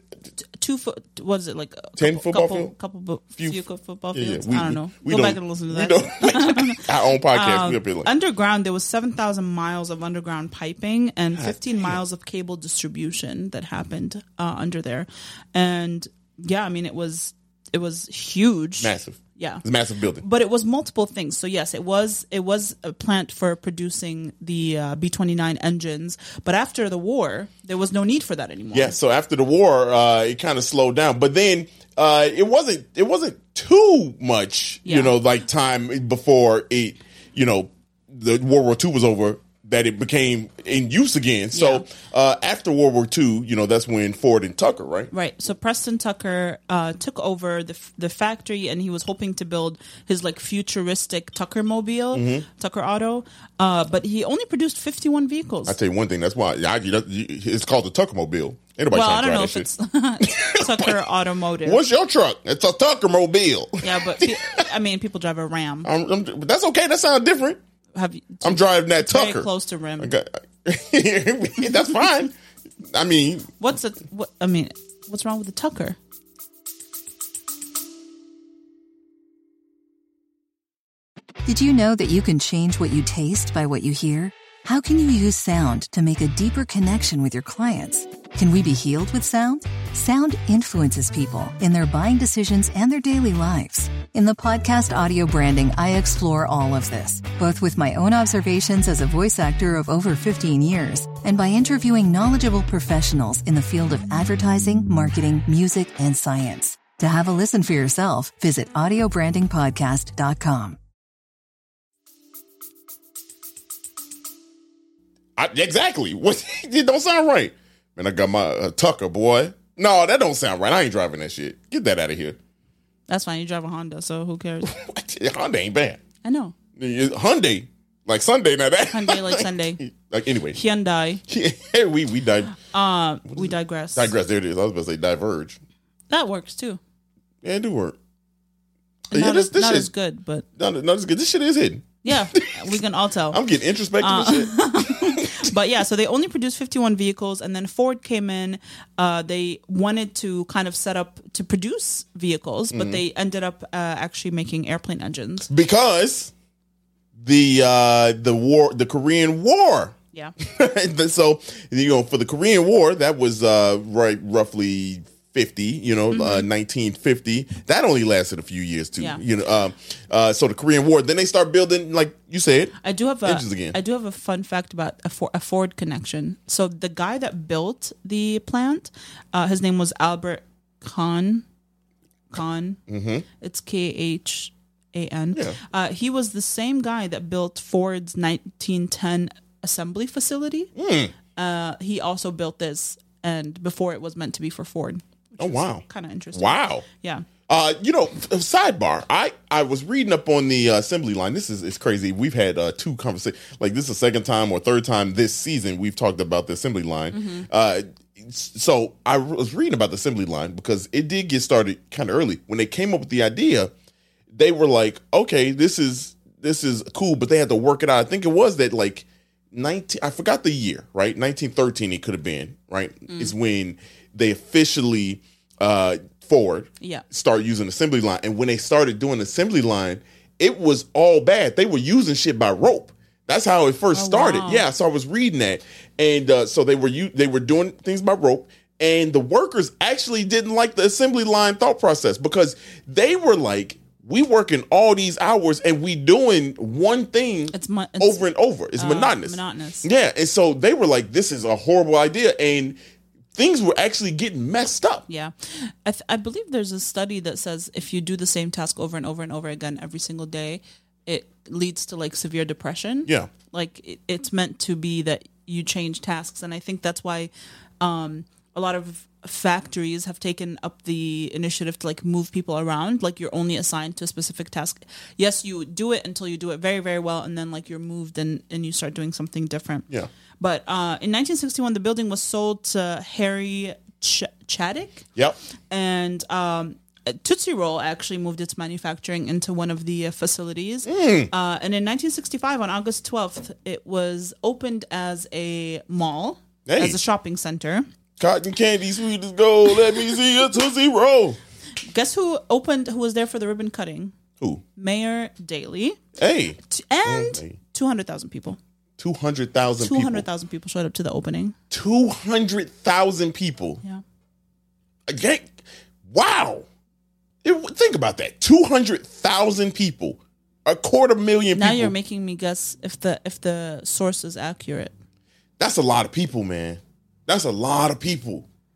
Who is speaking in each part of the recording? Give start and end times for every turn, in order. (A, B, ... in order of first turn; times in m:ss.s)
0:00.4-0:19.6 A
0:02.0-0:02.7 B
0:04.1-0:08.1 B
0:11.3-0:11.9 B
0:18.8-0:20.2 B
0:20.2-0:29.0 A
0:28.7-0:45.1 B
0:34.8-0:35.1 A
0:41.5-0:41.8 A
0:45.1-0:55.8 A
0:52.1-0:52.4 B
0:55.6-0:59.7 B
0:58.9-1:01.8 A
1:00.2-1:01.0 B
1:01.6-1:04.6 B
1:03.8-1:05.9 A
1:05.8-1:07.6 B
1:07.9-1:10.1 A
1:08.4-1:09.5 B
1:10.0-1:12.3 B
1:12.9-1:13.5 B
1:13.6-1:16.0 A
1:21.4-1:50.8 C
1:55.4-2:02.4 B
2:03.1-2:04.7 A
2:04.6-2:06.0 B
2:06.2-2:06.6 A
2:06.8-2:10.6 B
2:08.9-2:09.8 A
2:10.5-2:11.2 A
2:11.3-2:12.6 B
2:12.6-2:14.1 A
2:13.3-2:15.6 B
2:16.1-2:16.8 A
2:17.4-2:18.0 B
2:19.1-2:19.9 B
2:19.1-2:20.4 A
2:20.6-2:22.6 B
2:22.0-2:23.4 A
2:23.3-2:25.5 B
2:24.0-2:35.5 A
2:32.7-2:33.0 B
2:35.5-2:36.3 B
2:37.2-2:53.8 B
2:46.1-2:46.5 A
2:49.0-2:49.2 A
2:52.8-3:01.4 A
3:02.3-3:02.8 A
3:02.9-3:03.2 B
3:03.4-3:10.7 A
3:10.8-3:11.1 B
3:11.3-3:17.3 A
3:15.4-3:16.8 B
3:17.5-3:33.7 B
3:27.1-3:27.5 A
3:34.3-4:12.8 B
3:46.8-3:47.0 A
3:53.9-3:54.7 A
4:07.5-4:08.2 A
4:08.8-4:09.9 A
4:13.3-4:15.0 B
4:15.1-4:39.9 A
4:40.4-4:45.1 A
4:45.7-4:57.8 A
4:50.8-4:51.3 B
4:56.6-4:57.0 B
4:58.2-5:01.4 B
5:01.9-5:04.1 A
5:04.8-5:06.0 A
5:06.2-5:07.6 B
5:06.6-5:08.6 A
5:09.0-5:10.3 B
5:09.8-5:11.6 A
5:11.7-5:13.8 B
5:15.1-5:15.5 B
5:16.1-5:16.6 B
5:17.4-5:21.9 B
5:21.5-5:24.9 A
5:25.6-5:28.4 B